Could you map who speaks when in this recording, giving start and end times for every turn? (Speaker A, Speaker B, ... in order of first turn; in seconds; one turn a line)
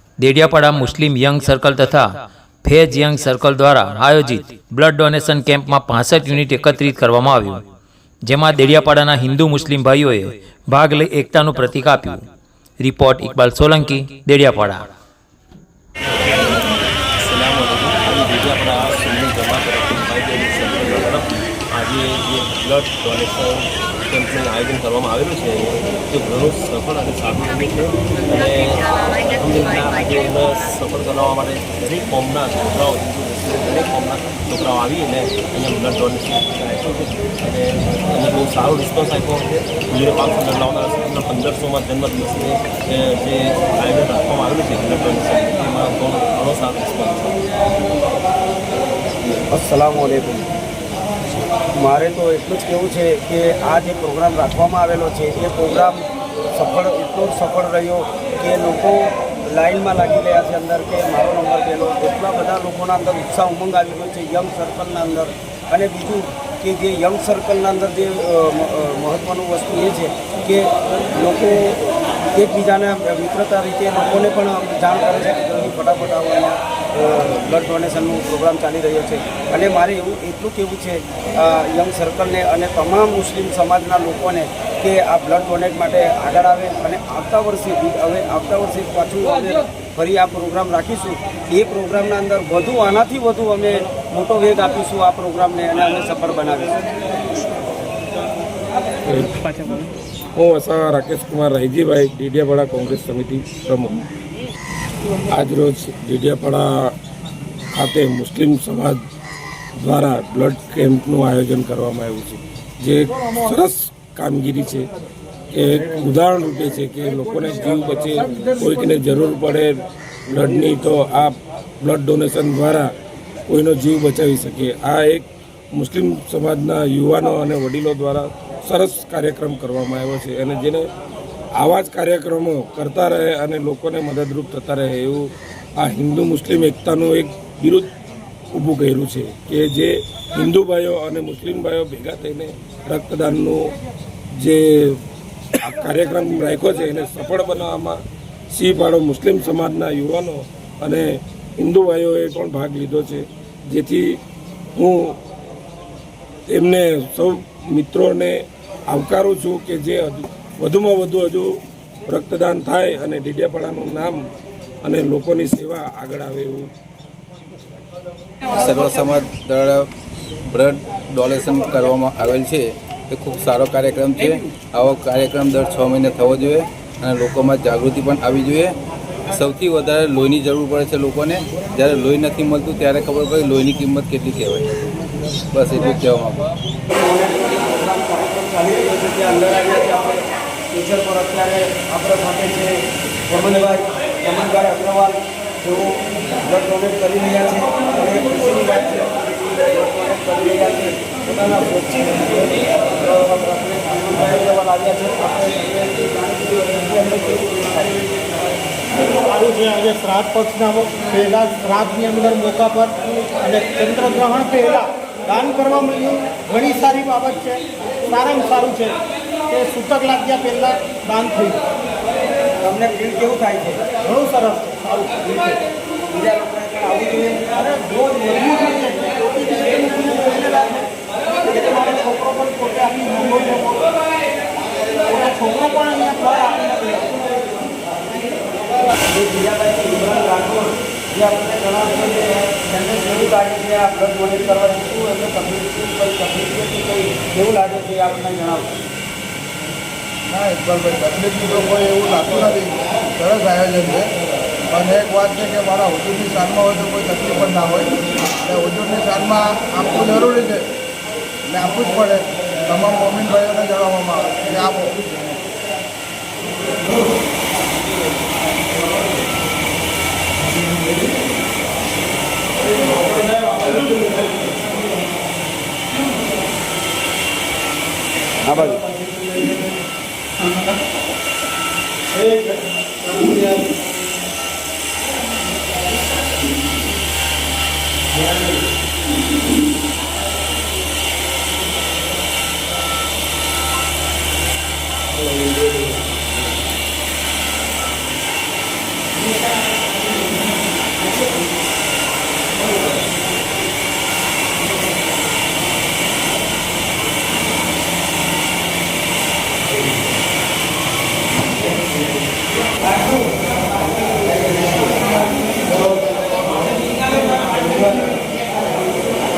Speaker A: 0.2-2.1
Speaker A: 2.6-7.6
Speaker A: 8.2-12.2
Speaker A: 12.8-14.8
Speaker B: 17.2-47.4
Speaker C: 49.5-50.5
Speaker C: 51.8-56.0
Speaker C: 56.5-71.8
Speaker C: 72.3-96.8
Speaker D: 99.0-99.3
Speaker D: 100.4-104.0
Speaker D: 105.3-106.9
Speaker D: 107.7-109.0
Speaker D: 109.8-114.9
Speaker D: 115.5-122.9
Speaker D: 123.5-130.9
Speaker D: 131.6-135.2
Speaker D: 135.8-137.9
Speaker D: 138.5-143.7
Speaker D: 144.4-145.0
Speaker D: 145.6-148.0
Speaker D: 148.5-154.2
Speaker D: 154.8-155.2
Speaker D: 156.5-158.4
Speaker D: 158.9-161.5
Speaker D: 162.1-164.2
Speaker D: 164.8-166.7
Speaker E: 168.5-169.9
Speaker E: 170.5-178.7
Speaker E: 179.3-184.8
Speaker E: 185.5-186.4
Speaker C: 186.9-208.1
Speaker F: 209.2-221.6
Speaker C: 222.6-223.8
Speaker F: 224.0-225.6
Speaker C: 226.1-227.6
Speaker F: 227.5-230.8
Speaker F: 231.4-234.0
Speaker F: 234.8-237.4
Speaker C: 239.1-248.6
Speaker G: 250.3-254.1
Speaker G: 254.7-257.9
Speaker G: 258.4-260.6
Speaker G: 261.5-265.0
Speaker C: 278.4-278.8
Speaker F: 283.1-283.5